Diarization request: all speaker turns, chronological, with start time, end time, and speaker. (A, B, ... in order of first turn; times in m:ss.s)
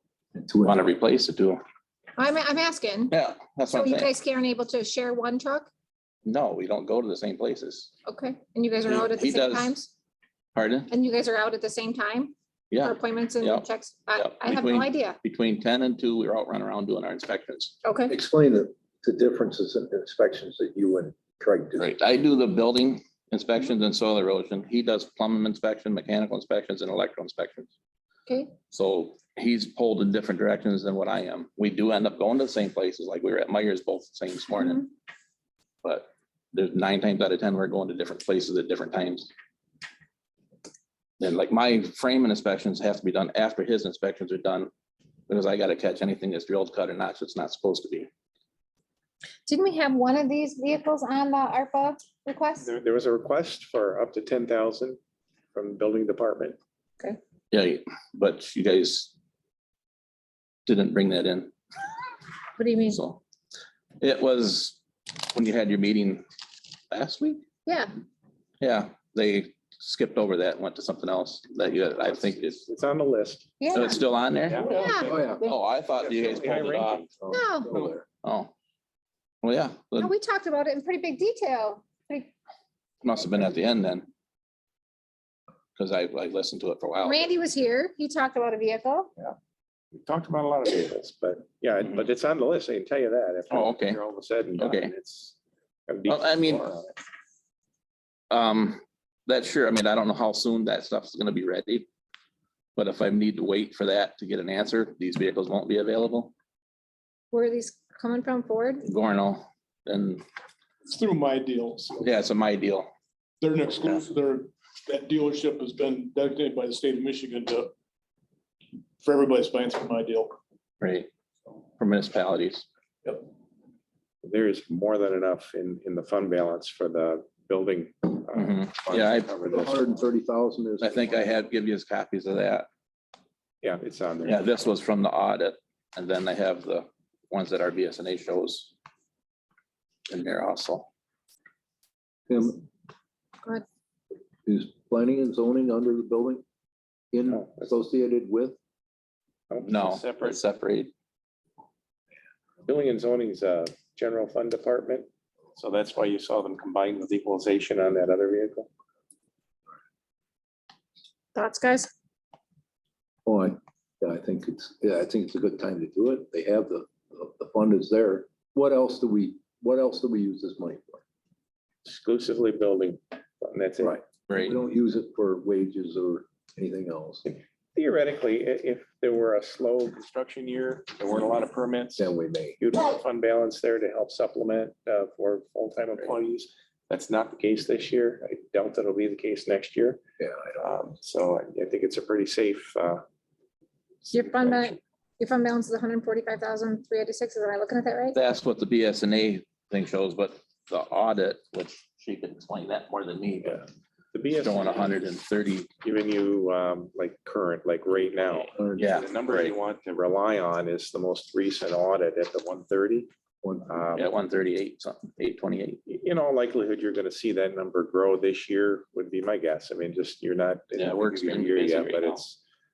0:00.4-0:00.8 A
0:00.6-0:01.6 B
0:02.2-0:03.1 C
0:03.1-0:04.1 B
0:03.7-0:05.7 C
0:06.2-0:07.9 B
0:08.0-0:09.9 C
0:08.9-0:09.7 B
0:10.6-0:10.9 B
0:10.9-0:15.2 C
0:12.7-0:17.8 B
0:17.8-0:18.2 C
0:18.1-0:21.9 A
0:21.8-0:27.7 B
0:28.3-0:28.5 C
0:28.7-0:34.9 B
0:34.6-0:34.9 C
0:35.8-0:39.3 B
0:41.2-0:44.7 B
0:45.3-0:48.1 B
0:49.5-0:52.7 C
0:52.6-0:55.0 D
0:55.5-0:56.6 D
0:57.5-0:59.1 B
1:00.7-1:01.5 B
1:02.6-1:03.0 C
1:02.9-1:03.2 B
1:04.0-1:04.8 B
1:05.3-1:06.2 B
1:06.9-1:07.4 B
1:07.7-1:07.9 C
1:08.6-1:12.6 B
1:12.0-1:13.5 D
1:13.6-1:14.0 C
1:13.7-1:14.7 B
1:14.5-1:14.9 D
1:14.6-1:15.4 E
1:14.6-1:15.1 C
1:15.1-1:15.4 A
1:15.4-1:17.1 B
1:16.0-1:17.1 D
1:17.2-1:18.0 A
1:17.3-1:17.7 C
1:18.2-1:18.5 B
1:19.4-1:20.1 B
1:20.0-1:22.3 C
1:23.0-1:24.1 B
1:25.8-1:27.3 B
1:27.0-1:29.1 C
1:29.9-1:35.4 D
1:33.5-1:34.0 B
1:34.6-1:34.9 B
1:35.9-1:36.9 D
1:36.1-1:36.8 B
1:38.3-1:41.9 B
1:42.8-1:46.3 B
1:47.3-1:48.8 C
1:48.8-1:50.2 B
1:50.9-1:52.0 E
1:52.0-1:52.9 B
1:53.4-1:57.7 E
1:59.0-2:00.4 E
2:00.8-2:01.1 B
2:01.8-2:02.7 B
2:04.2-2:10.0 D
2:08.3-2:09.4 B
2:09.5-2:11.3 A
2:10.8-2:12.7 B
2:13.6-2:14.4 D
2:14.2-2:18.7 B
2:20.1-2:20.9 B
2:22.3-2:22.6 A
2:24.5-2:26.4 A
2:27.1-2:28.6 A
2:27.3-2:27.7 D
2:29.5-2:30.4 D
2:29.6-2:30.9 B
2:32.7-2:38.7 D
2:41.4-2:41.9 C
2:43.3-2:51.0 A
2:51.8-2:54.0 D
2:53.8-2:57.2 A
2:54.3-2:54.6 B
2:57.3-3:02.1 D
3:02.0-3:02.6 A
3:02.6-3:10.0 D
3:10.2-3:10.9 A
3:10.6-3:13.0 D
3:14.0-3:14.8 D
3:14.1-3:18.2 C
3:18.1-3:23.7 B
3:23.4-3:25.0 D
3:24.3-3:25.7 B
3:25.8-3:33.1 D
3:28.3-3:29.1 A
3:28.8-3:29.6 B
3:33.4-3:33.8 A
3:33.7-3:34.1 D
3:34.0-3:35.8 B
3:35.9-3:42.4 D
3:40.8-3:42.2 B